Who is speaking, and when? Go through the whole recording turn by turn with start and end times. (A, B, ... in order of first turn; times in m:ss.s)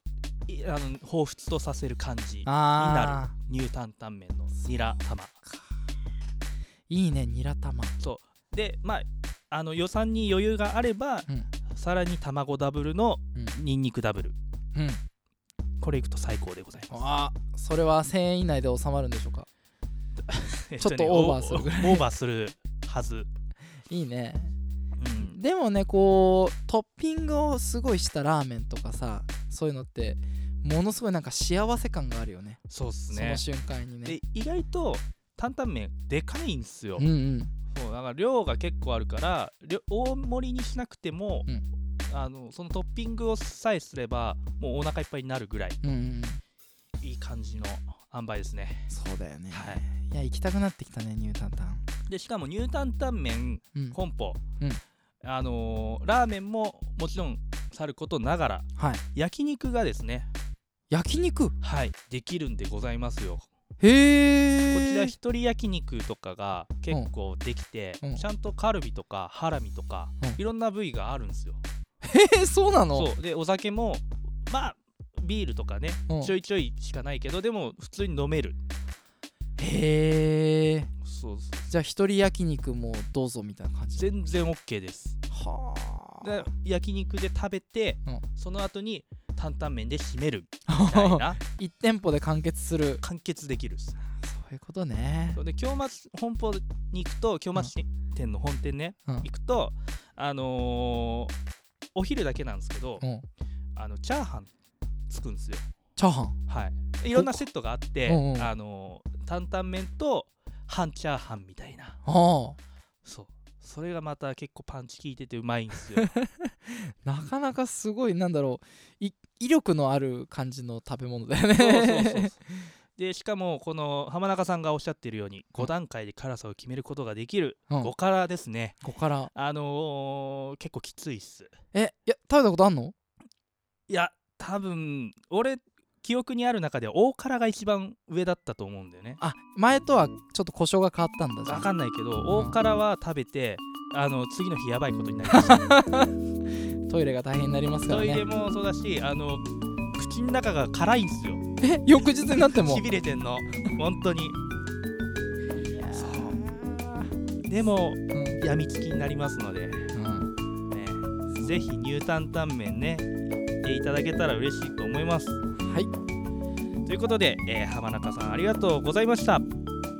0:00.5-0:05.3 A
0:02.4-0:03.3 B
0:06.9-0:08.0 B
0:08.0-0:14.3 A
0:14.7-0:15.0 B
0:15.8-0:16.9 A
0:16.9-0:19.5 B
0:20.2-0:23.3 A
0:20.8-0:22.0 B
0:23.9-0:24.5 B
0:25.0-0:25.4 A
0:25.2-0:34.2 B
0:32.7-0:33.4 A
0:34.0-0:37.1 A
0:37.0-0:37.5 B
0:37.7-0:41.5 A
0:42.1-0:45.8 A
0:45.8-0:46.4 B
0:47.0-0:48.9 A
0:48.9-0:51.8 B
0:49.5-0:49.8 A
0:52.1-0:54.4 A
0:55.2-1:00.3 A
0:58.8-0:59.0 B
1:00.9-1:01.6 B
1:01.6-1:03.4 A
1:03.8-1:05.2 B
1:04.7-1:11.6 A
1:12.0-1:13.1 B
1:12.9-1:18.6 A
1:19.6-1:20.9 B
1:21.0-1:21.7 A
1:21.7-1:24.1 B
1:24.0-1:25.2 A
1:25.3-1:26.5 B
1:26.2-1:31.4 A
1:30.7-1:33.0 B
1:33.0-1:34.0 A
1:34.2-1:35.4 B
1:35.3-1:41.3 A
1:41.9-1:43.0 A
1:43.0-1:43.2 B
1:43.8-1:44.5 A
1:45.1-1:45.6 A
1:46.0-1:46.4 B
1:46.5-1:52.0 A
1:47.1-1:47.5 B
1:48.0-1:48.5 B
1:52.0-1:52.6 B
1:53.0-1:56.1 A
1:56.0-2:02.7 B
2:01.6-2:02.4 A
2:03.0-2:08.8 A
2:08.8-2:09.3 B
2:09.3-2:11.5 A
2:11.7-2:12.9 B
2:13.9-2:19.2 A
2:19.2-2:21.7 B
2:21.4-2:25.7 A
2:22.3-2:22.6 B
2:25.3-2:28.2 B
2:27.9-2:31.4 A
2:31.6-2:32.8 B
2:32.3-2:34.4 A
2:35.6-2:37.1 B
2:35.9-2:36.4 A
2:37.4-2:39.9 A
2:38.1-2:38.4 B
2:39.9-2:40.3 B
2:40.7-2:45.4 A
2:41.3-2:41.6 B
2:45.6-2:45.9 B
2:46.8-2:49.4 A